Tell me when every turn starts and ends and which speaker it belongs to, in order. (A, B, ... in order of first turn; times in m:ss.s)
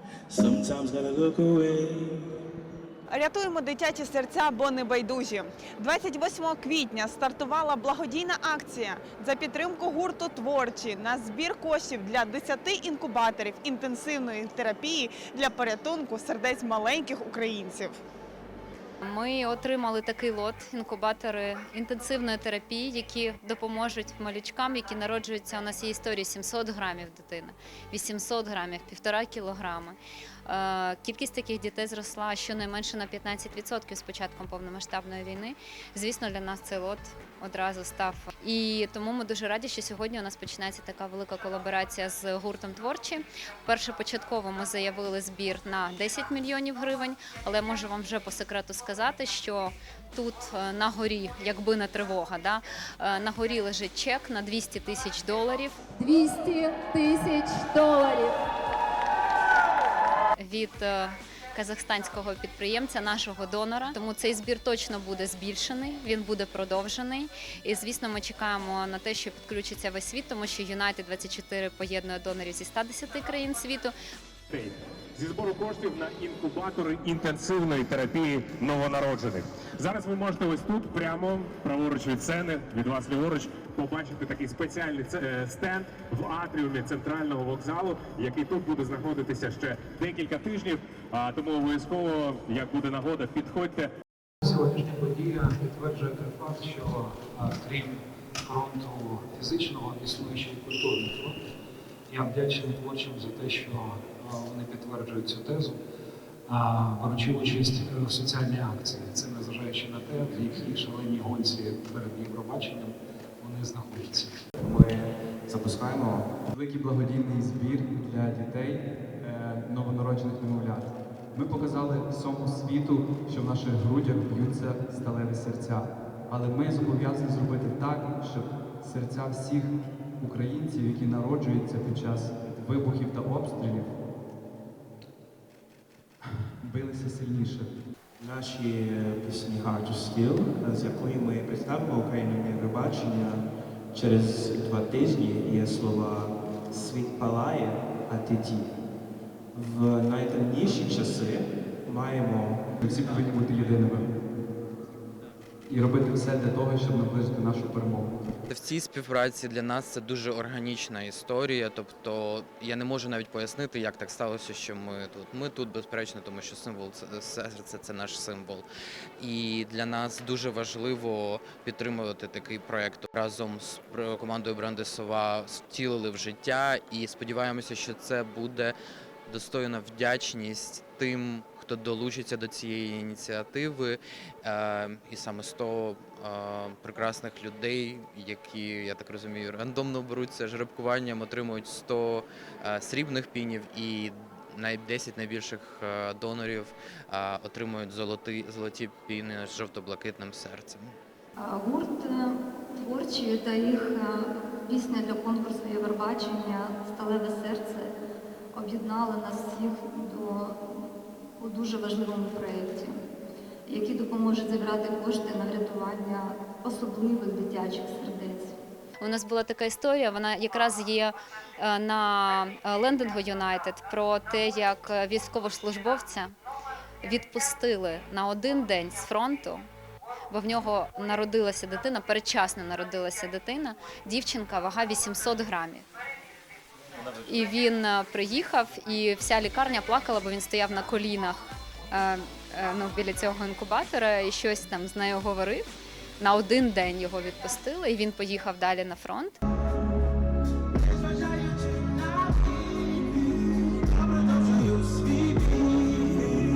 0:00.3-0:02.3 A
0:03.1-0:18.0 B
0:19.0-0:58.4 C
1:00.4-1:13.9 C
1:14.5-1:33.9 D
1:34.4-1:41.4 E
1:42.1-1:45.8 E
1:46.5-1:54.4 E
1:56.0-2:14.0 F
2:16.6-2:17.7 F
2:18.2-2:28.7 G
2:29.5-2:32.6 G
2:32.8-2:34.1 F
2:35.7-2:38.3 F
2:38.5-2:48.7 H
2:49.2-2:58.8 H
2:59.3-3:20.9 H
3:21.4-3:27.9 I
3:28.5-3:30.8 I
3:31.4-3:32.9 I
3:33.7-3:38.6 I
3:39.0-3:46.3 C
3:47.0-3:49.7 C
3:50.3-3:55.9 C
3:57.2-4:01.4 C
4:01.9-4:05.6 C
4:06.2-4:09.4 C
4:14.7-4:15.2 A